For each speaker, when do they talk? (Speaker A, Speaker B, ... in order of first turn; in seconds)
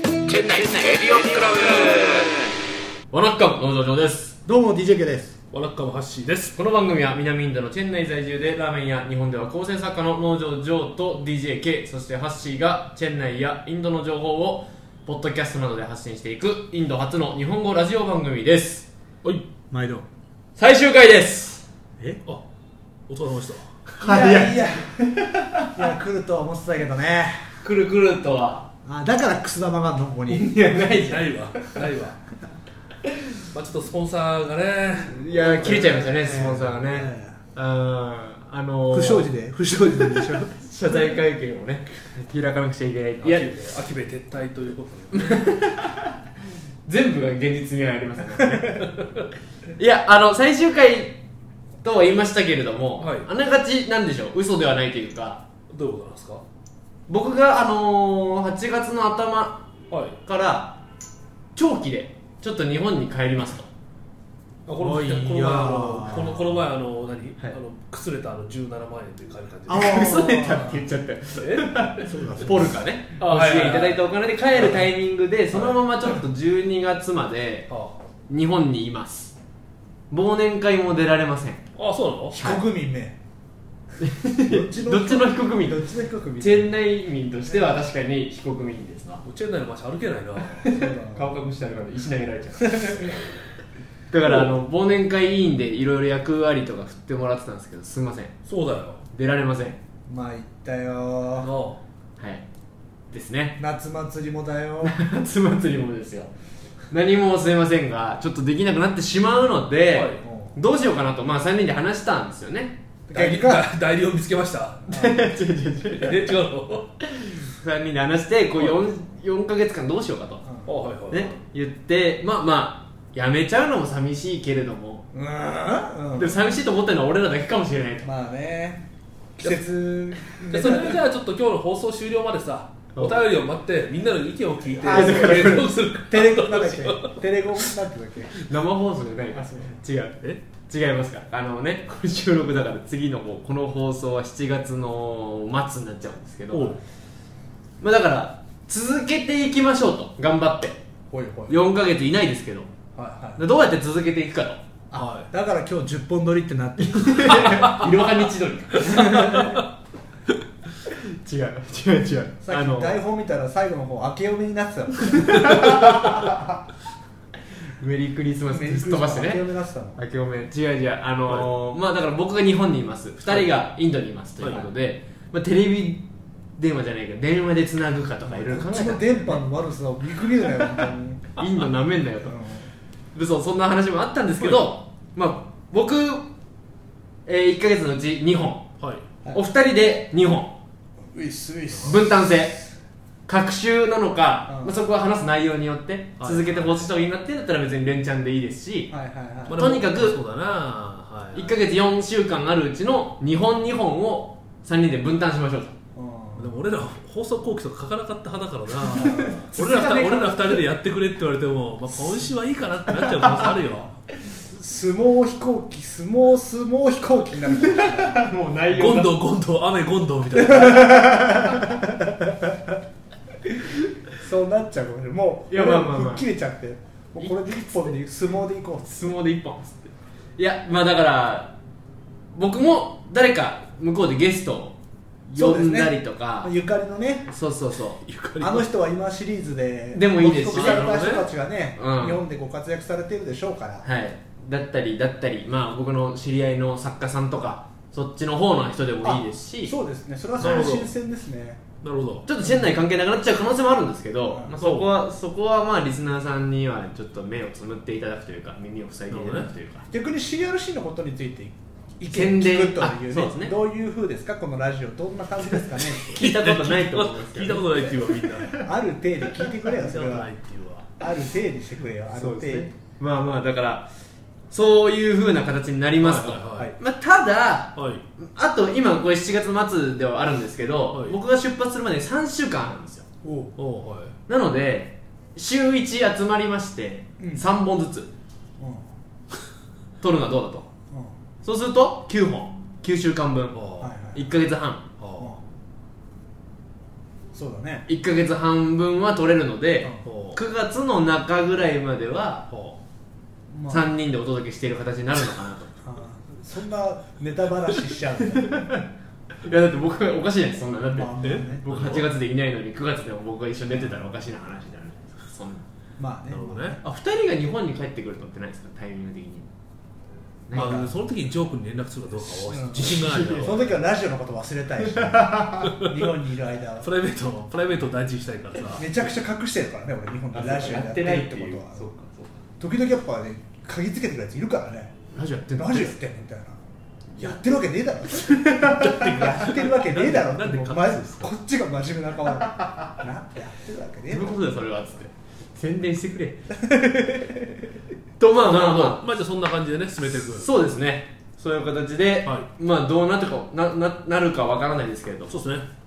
Speaker A: 0.3-2.3, 3.1-4.4, 6.5-18.9, 20.6-21.6, 24.0-25.8, 27.6-28.7, 30.3-31.7, 35.1-39.3, 40.5-43.5, 45.1-46.1, 46.9-48.8, 49.8-51.2, 51.8-55.4, 57.1-59.6, 60.2-60.8, 61.5-63.7, 69.7-77.7, 78.3-79.3, 80.1-81.6, 82.3-82.6, 84.0-85.8, 86.4-89.2, 90.6-93.4, 94.1-98.3, 99.1-99.8, 102.2-102.4, 103.1-103.6, 104.8-106.3, 106.9-112.8, 114.9-116.2, 117.1-120.4, 121.1-125.0, 126.1-128.1, 132.9-133.2, 134.9-135.7, 138.4-146.8, 147.8-150.8, 151.5-152.7, 153.3-154.6, 156.8-159.6, 160.8-163.0, 165.2-166.1, 167.8-176.0, 176.6-179.4, 181.3-182.4, 183.1-186.2, 187.2-188.7, 189.3-190.6, 191.8-192.6, 193.3-198.9, 199.5-200.2, 201.3-205.7, 208.9-210.5, 217.6-219.2, 225.5-226.3, 227.2-227.7, 228.9-231.5, 232.3-234.8, 235.3-236.5, 237.3-238.0, 239.9-240.8, 241.8-242.2, 243.8-249.7, 252.2-259.9, 262.1-263.6, 266.0-268.6, 272.1-273.9, 274.5-283.1, 284.3-288.1, 290.0-290.7, 291.4-293.6, 294.1-294.9, 297.9-302.5, 303.7-305.7, 308.3-308.9, 309.4-315.6, 316.8-319.5, 320.5-320.8, 322.9-323.5, 330.3-332.4, 335.1-335.9, 344.1-346.4, 348.2-349.0, 350.3-355.4
Speaker B: 4.4-5.3, 19.7-20.1, 24.0-27.5, 28.8-30.7, 35.3-37.4, 38.9-40.5, 64.8-66.5, 69.7-70.9, 71.9-72.8, 82.3-83.2, 84.4-86.7, 90.6-91.3, 92.8-93.0, 100.1-101.5, 103.6-104.9, 110.2-110.5, 113.1-113.7, 114.9-115.3, 125.1-126.4, 128.0-128.8, 129.4-131.0, 134.8-138.3, 139.3-139.8, 151.1-151.6, 153.0-153.4, 154.9-157.8, 158.9-159.6, 162.4-166.6, 168.5-170.0, 178.2-181.3, 182.2-182.7, 191.1-192.2, 194.5-194.8, 198.9-199.7, 205.9-206.5, 208.9-209.9, 213.1-213.5, 214.4-218.3, 220.4-222.8, 224.1-229.1, 235.3-237.3, 238.4-243.9, 249.0-251.6, 254.3-254.7, 259.9-266.2, 268.5-270.3, 271.0-272.7, 283.2-283.5, 287.2-287.4, 288.6-288.9, 293.8-294.4, 297.3-297.9, 303.5-303.9, 305.8-308.7, 310.9-311.7, 313.7-314.1, 316.0-316.8, 320.5-321.0, 322.4-326.9, 328.7-331.9, 332.6-335.0, 335.5-336.6, 337.1-344.4, 346.5-347.6
Speaker C: 5.5-6.5, 23.1-23.8, 30.8-32.2, 33.5-36.1, 43.2-45.5, 48.8-49.2, 53.0-53.3, 55.7-56.4, 59.9-60.2, 64.7-70.2, 71.4-71.7, 73.2-74.0, 77.7-78.0, 81.8-82.4, 89.2-90.6, 94.2-94.5, 98.5-99.0, 101.4-101.8, 109.9-110.2, 113.1-114.8, 116.0-116.9, 120.7-121.4, 130.3-137.7, 146.5-146.8, 154.9-155.3, 157.3-157.9, 159.0-159.6, 173.2-173.5, 174.4-174.6, 184.4-184.6, 196.2-196.8, 199.5-201.6, 206.3-213.9, 218.7-221.2, 238.0-238.7, 240.5-241.3, 250.4-250.9, 251.8-252.2, 254.6-254.8, 259.1-259.5, 265.9-268.6, 269.6-270.9, 276.0-276.7, 277.8-278.0, 283.6-284.1, 293.5-293.9, 295.0-295.3, 300.0-300.4, 302.5-302.8, 311.2-312.1, 316.3-316.8, 320.5-323.7, 325.6-326.1, 326.8-328.9, 338.6-341.3, 348.4-350.5, 355.3-355.6